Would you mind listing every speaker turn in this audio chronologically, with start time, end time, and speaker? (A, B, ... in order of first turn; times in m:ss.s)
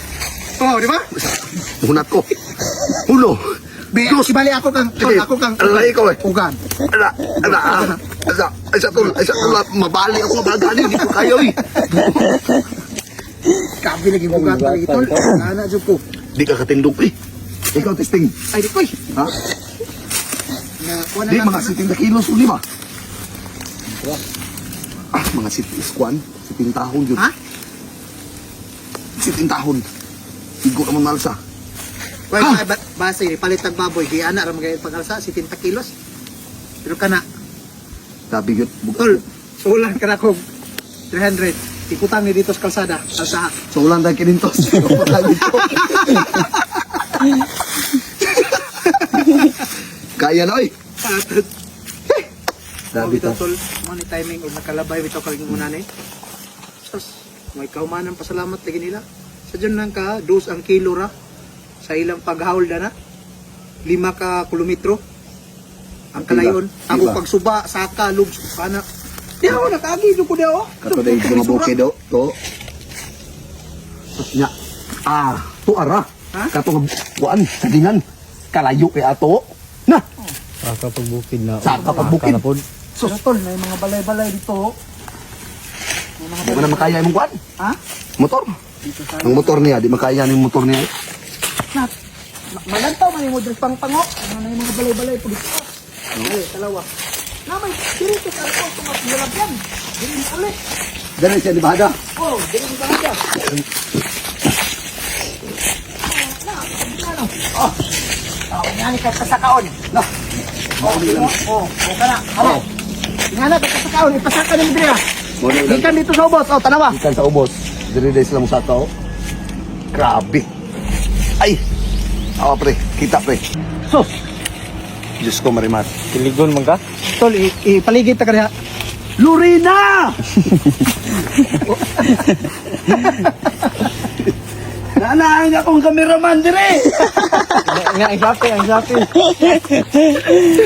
0:00.6-0:01.1 A
0:01.2-0:02.3 B
0:02.9-0:04.4 B
0:03.9-0:06.6 A
0:05.0-0:06.2 B
0:06.8-0:12.6 B
0:07.4-0:08.0 A
0:09.0-0:09.5 A
0:13.8-0:16.0 A
0:14.3-0:15.2 C
0:16.4-0:17.2 B
0:17.7-0:18.4 B
0:18.5-0:19.0 A
0:20.8-0:21.8 A
0:21.3-0:22.6 B
0:23.9-0:24.2 C
0:25.1-0:27.2 B
0:29.2-0:29.8 B
0:30.6-0:31.4 B
0:32.3-0:35.9 A
0:36.8-0:37.2 A
0:38.3-0:39.2 B
0:39.0-0:40.4 A
0:41.1-0:43.6 A
0:43.7-0:46.6 B
0:45.5-0:46.6 A
0:48.3-0:49.5 B
0:48.8-0:49.5 A
0:50.2-0:50.7 B
0:51.0-0:51.5 A
0:52.9-0:53.4 B
0:52.9-0:55.9 A
0:56.8-1:01.1 A
1:01.8-1:02.9 A
1:03.9-1:05.0 A
1:06.1-1:08.8 A
1:06.2-1:07.2 B
1:09.4-1:11.7 A
1:10.8-1:12.4 B
1:14.2-1:14.5 B
1:15.1-1:20.0 B
1:20.6-1:22.6 C
1:21.6-1:22.4 B
1:21.8-1:22.2 A
1:23.0-1:24.7 A
1:26.2-1:27.0 A
1:26.4-1:27.4 B
1:28.2-1:28.6 B
1:28.8-1:29.7 A
1:29.2-1:30.9 B
1:32.5-1:35.7 A
1:36.2-1:36.9 A
1:37.5-1:40.6 A
1:41.2-1:42.0 B
1:42.2-1:43.2 A
1:46.1-1:47.4 A
1:48.5-1:49.8 A
1:50.8-1:51.4 B
1:50.8-1:52.6 A
1:52.4-1:52.6 B
1:53.3-1:55.0 A
1:55.4-1:56.0 B
1:55.5-1:57.0 A
1:56.9-1:58.9 B
1:59.9-2:00.5 B
2:02.4-2:04.1 B
2:05.2-2:06.0 B
2:06.1-2:06.8 C
2:07.1-2:08.5 A
2:09.2-2:10.2 B
2:11.8-2:12.3 A
2:12.9-2:13.9 A
2:15.0-2:17.6 B
2:17.0-2:17.6 A
2:17.6-2:20.3 C